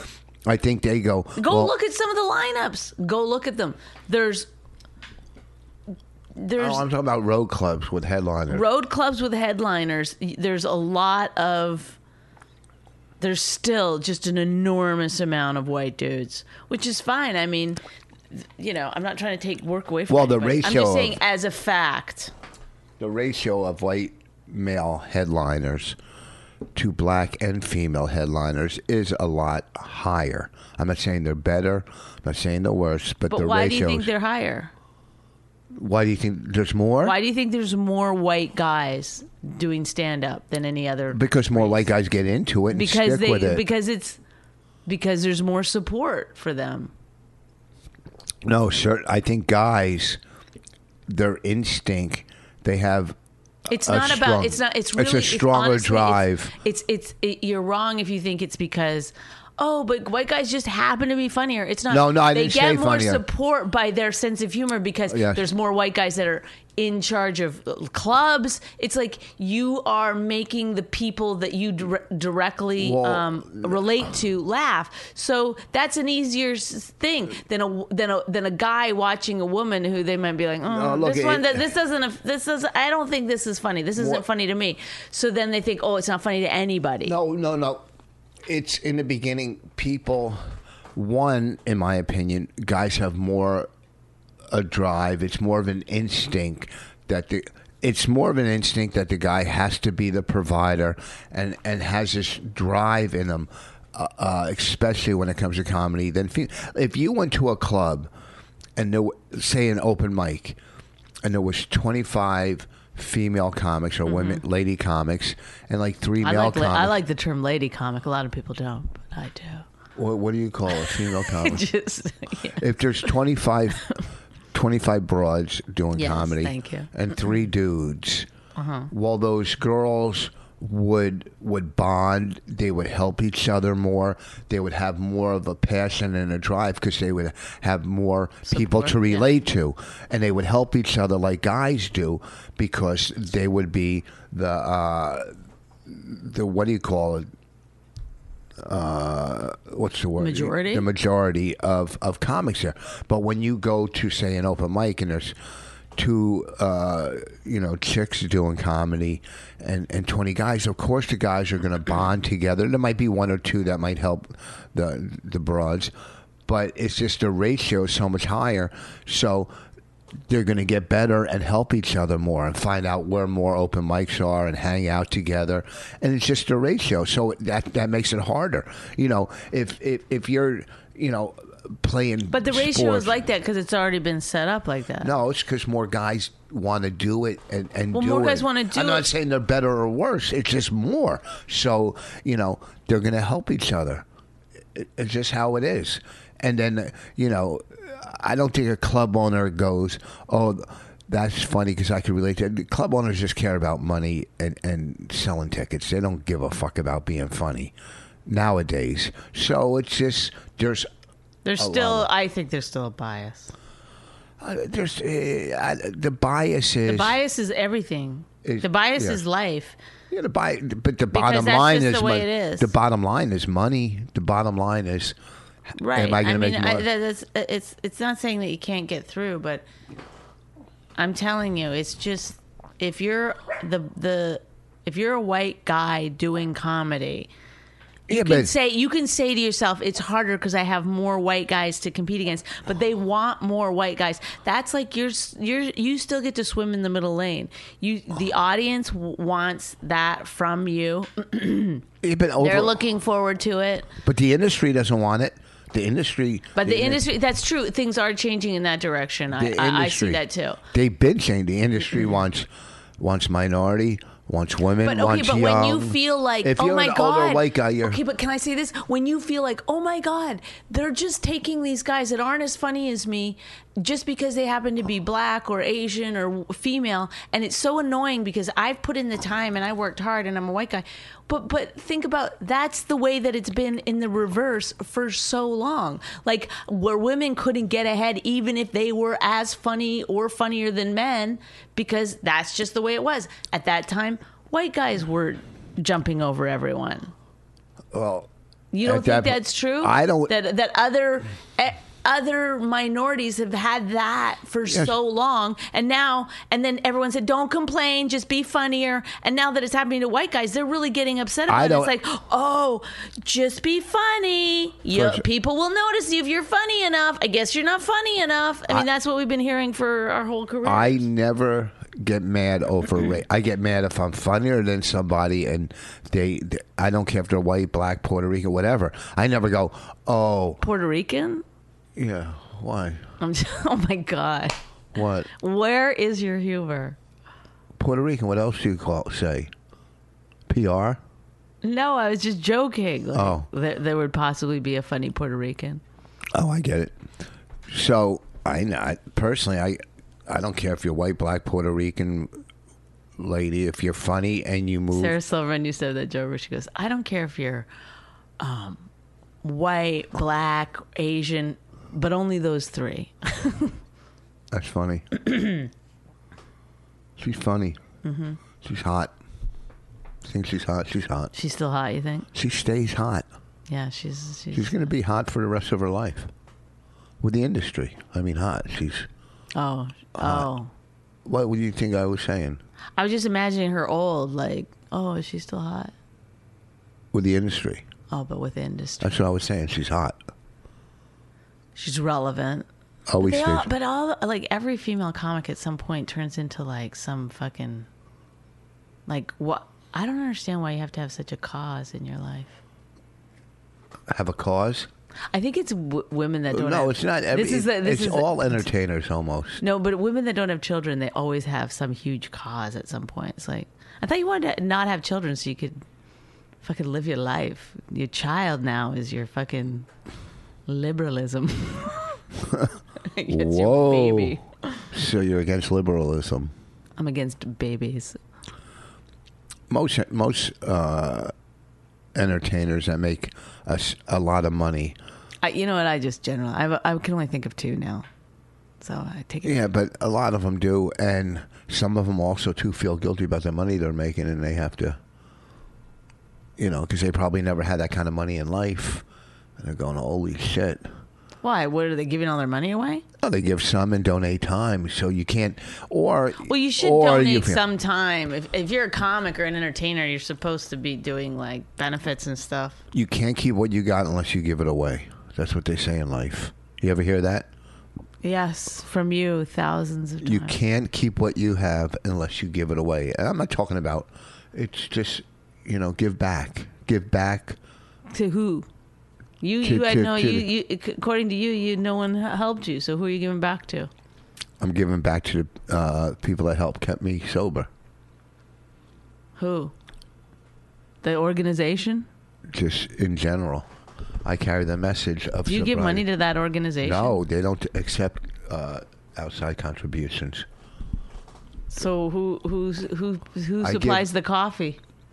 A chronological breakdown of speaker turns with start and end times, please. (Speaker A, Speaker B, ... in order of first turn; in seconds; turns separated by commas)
Speaker A: 0.4-1.7, Speaker B: 1.4-4.5, Speaker B: 6.3-6.8, Speaker A: 6.6-8.7, Speaker B: 8.5-12.0, Speaker B: 13.2-17.8, Speaker B: 18.3-22.3, Speaker A: 20.1-21.2, Speaker A: 23.0-25.9, Speaker A: 26.7-34.1, Speaker B: 33.3-34.7, Speaker A: 35.7-37.2, Speaker B: 37.0-41.9, Speaker A: 41.1-43.6, Speaker B: 42.7-44.2, Speaker B: 44.9-46.9, Speaker A: 48.4-50.2, Speaker A: 51.1-53.1, Speaker B: 53.7-87.2, Speaker A: 53.7-56.5, Speaker A: 61.9-63.2, Speaker A: 65.1-65.4, Speaker A: 72.8-73.8, Speaker A: 80.7-81.7, Speaker A: 84.0-84.2, Speaker A: 87.0-87.8, Speaker A: 88.5-90.4, Speaker A: 90.9-93.7, Speaker A: 94.5-108.1, Speaker A: 108.8-110.6, Speaker A: 111.2-117.0, Speaker B: 114.0-114.4, Speaker B: 116.2-119.6, Speaker A: 120.0-121.7, Speaker B: 120.7-122.6, Speaker A: 122.6-123.9, Speaker A: 124.5-128.3, Speaker B: 125.9-127.3, Speaker B: 128.6-128.9, Speaker A: 128.9-145.3, Speaker B: 138.5-139.3, Speaker A: 145.8-147.3, Speaker A: 148.6-155.3, Speaker B: 150.2-150.9, Speaker A: 155.9-165.9, Speaker A: 166.5-169.5, Speaker A: 170.3-183.2, Speaker B: 182.3-185.1, Speaker A: 185.0-194.0, Speaker B: 187.9-189.1, Speaker A: 194.7-207.7, Speaker A: 208.2-210.9, Speaker B: 211.4-213.5, Speaker A: 211.6-212.1, Speaker A: 214.4-217.2, Speaker B: 216.8-219.8, Speaker A: 218.4-219.2, Speaker A: 220.1-225.2, Speaker B: 221.1-222.7, Speaker B: 225.8-229.6, Speaker A: 225.9-226.9, Speaker B: 231.0-237.3, Speaker A: 238.1-238.5, Speaker B: 238.1-251.8, Speaker A: 252.0-252.8, Speaker B: 252.4-253.9, Speaker A: 254.0-257.0, Speaker B: 256.6-260.6, Speaker A: 259.3-262.5, Speaker A: 263.0-268.0, Speaker B: 264.8-297.1, Speaker A: 297.9-298.3, Speaker B: 298.7-321.0, Speaker A: 298.8-300.3, Speaker A: 304.6-304.9, Speaker A: 311.5-311.9, Speaker A: 314.9-315.2, Speaker A: 320.6-330.6, Speaker B: 330.6-331.4, Speaker A: 331.9-333.0, Speaker B: 333.2-334.6, Speaker A: 334.9-335.3, Speaker B: 335.3-337.0, Speaker A: 337.8-339.5, Speaker A: 340.5-341.0, Speaker B: 341.6-345.8, Speaker A: 343.1-343.5, Speaker A: 346.3-346.9, Speaker A: 347.7-352.3, Speaker A: 353.2-355.1, Speaker B: 354.9-357.7, Speaker B: 358.4-358.9, Speaker B: 359.4-363.8, Speaker A: 364.5-365.2, Speaker A: 367.2-367.8, Speaker B: 368.0-368.4, Speaker A: 368.6-369.1, Speaker A: 370.2-371.3, Speaker B: 371.3-372.3, Speaker A: 372.3-373.2, Speaker B: 373.7-374.8, Speaker A: 374.5-376.3, Speaker A: 377.2-379.1, Speaker B: 379.5-380.7, Speaker A: 380.1-380.5, Speaker A: 381.2-382.6, Speaker B: 383.0-385.9, Speaker A: 387.1-387.8, Speaker B: 388.1-389.2, Speaker A: 389.0-390.2, Speaker B: 391.7-392.7, Speaker A: 393.1-393.7, Speaker B: 393.2-397.9, Speaker B: 399.1-402.6, Speaker A: 404.1-404.9, Speaker B: 405.3-408.7, Speaker A: 406.5-409.6, Speaker B: 409.6-415.8, Speaker B: 416.6-419.9, Speaker B: 420.7-422.2, Speaker A: 422.4-422.7, Speaker B: 423.1-424.8, Speaker A: 423.3-424.4, Speaker A: 424.9-426.5, Speaker B: 427.0-428.2, Speaker A: 429.7-431.3, Speaker A: 432.1-435.0, Speaker B: 435.4-438.1, Speaker B: 438.8-439.6, Speaker A: 439.4-445.0, Speaker A: 446.6-449.0, Speaker A: 449.6-450.9, Speaker B: 451.4-453.0, Speaker A: 453.2-457.6, Speaker B: 456.4-462.8, Speaker A: 462.9-467.5, Speaker B: 468.2-470.6, Speaker A: 470.2-477.6, Speaker B: 478.1-478.7, Speaker B: 479.4-483.9, Speaker A: 479.6-480.5, Speaker A: 484.6-487.7, Speaker B: 489.4-489.7, Speaker B: 491.0-492.1, Speaker A: 492.5-493.7, Speaker A: 494.2-496.1, Speaker B: 495.4-497.2, Speaker A: 496.8-500.4, Speaker B: 501.7-504.8, Speaker A: 503.6-504.1